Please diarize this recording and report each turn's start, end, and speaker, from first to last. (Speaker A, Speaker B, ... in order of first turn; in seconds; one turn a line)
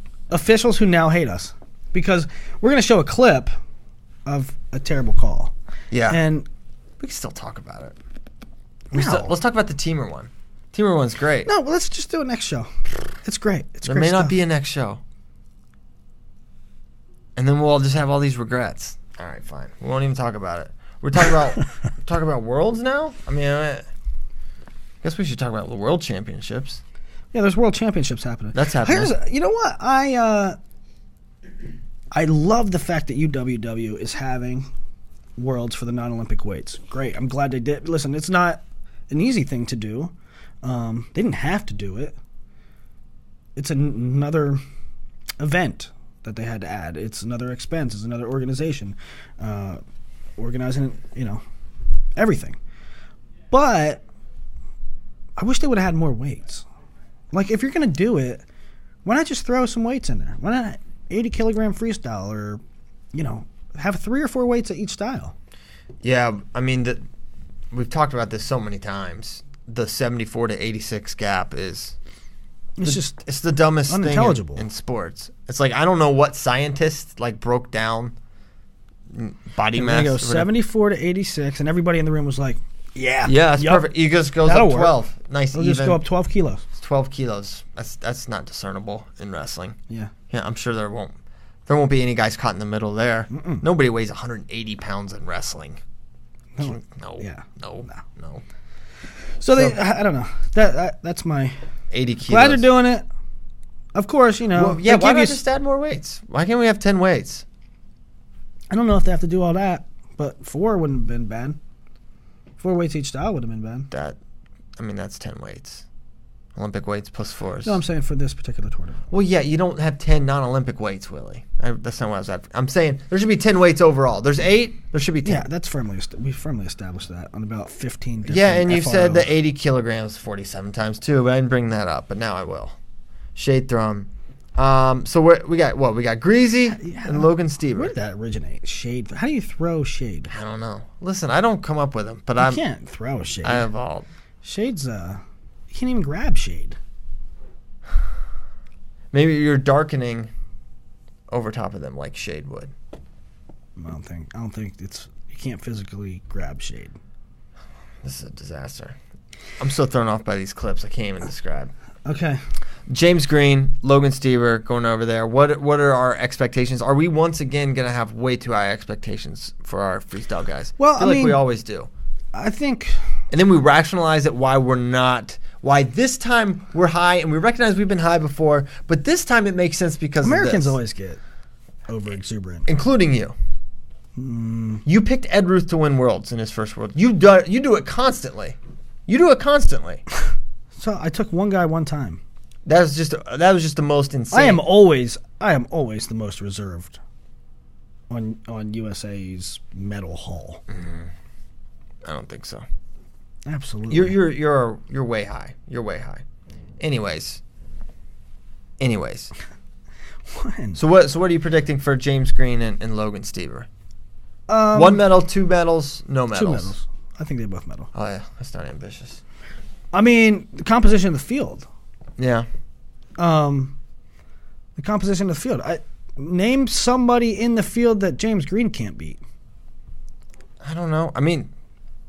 Speaker A: 0.3-3.5
Speaker A: 4.3-5.5
Speaker B: 5.9-6.2
Speaker A: 6.1-6.5
Speaker B: 7.0-8.0
Speaker B: 8.9-11.5
Speaker A: 8.9-9.3
Speaker A: 11.5-12.7
Speaker A: 13.2-14.4
Speaker B: 13.9-15.0
Speaker B: 17.4-23.8
Speaker B: 25.0-26.8
Speaker A: 27.3-30.6
Speaker B: 28.5-29.1
Speaker A: 32.1-34.7
Speaker A: 35.4-40.1
Speaker A: 40.6-42.1
Speaker A: 43.6-44.6
Speaker A: 45.4-49.8
Speaker A: 50.4-51.4
Speaker A: 52.2-52.6
Speaker A: 53.5-54.0
Speaker A: 55.4-56.7
Speaker A: 57.3-58.4
Speaker A: 59.0-62.6
Speaker A: 63.1-65.3
Speaker B: 66.0-67.0
Speaker B: 67.7-72.0
Speaker A: 72.8-73.2
Speaker B: 72.8-78.2
Speaker A: 73.9-74.6
Speaker B: 79.1-80.5
Speaker A: 79.8-83.9
Speaker B: 83.2-86.0
Speaker A: 84.4-85.0
Speaker A: 85.5-86.6
Speaker B: 86.8-89.8
Speaker B: 90.3-91.2
Speaker B: 91.7-95.8
Speaker A: 93.3-93.6
Speaker A: 96.6-98.0
Speaker B: 96.6-98.4
Speaker A: 99.4-101.6
Speaker B: 101.9-102.7
Speaker A: 102.3-103.0
Speaker A: 104.0-105.4
Speaker B: 104.5-107.5
Speaker A: 108.7-111.6
Speaker A: 112.6-113.9
Speaker B: 113.9-114.2
Speaker B: 114.8-115.8
Speaker B: 116.6-117.8
Speaker A: 117.7-119.0
Speaker B: 119.1-125.5
Speaker A: 125.2-129.3
Speaker B: 128.3-132.8
Speaker B: 133.3-137.9
Speaker A: 136.7-140.3
Speaker B: 140.3-142.6
Speaker A: 142.4-143.7
Speaker B: 143.4-144.1
Speaker A: 144.4-146.8
Speaker B: 149.1-150.3
Speaker B: 151.3-152.7
Speaker A: 153.8-157.0
Speaker B: 158.0-159.0
Speaker B: 159.6-161.7
Speaker A: 162.1-162.4
Speaker B: 162.9-171.9
Speaker A: 170.8-171.4
Speaker A: 172.3-173.0
Speaker B: 173.3-180.8
Speaker A: 180.2-181.2
Speaker A: 181.9-182.7
Speaker B: 182.7-183.3
Speaker A: 184.2-184.8
Speaker B: 184.9-188.6
Speaker B: 189.1-190.0
Speaker A: 190.8-192.2
Speaker B: 192.7-194.6
Speaker A: 194.3-197.0
Speaker A: 198.1-200.6
Speaker B: 200.7-201.1
Speaker B: 202.1-202.7
Speaker A: 203.5-204.2
Speaker B: 203.9-206.2
Speaker B: 206.8-207.4
Speaker B: 208.8-209.3
Speaker A: 210.3-210.8
Speaker B: 210.8-213.7
Speaker A: 214.5-215.0
Speaker B: 214.7-216.7
Speaker A: 216.3-217.9
Speaker B: 217.9-219.2
Speaker A: 219.9-221.7
Speaker B: 222.2-222.5
Speaker A: 223.2-223.7
Speaker A: 224.8-229.2
Speaker B: 230.6-231.5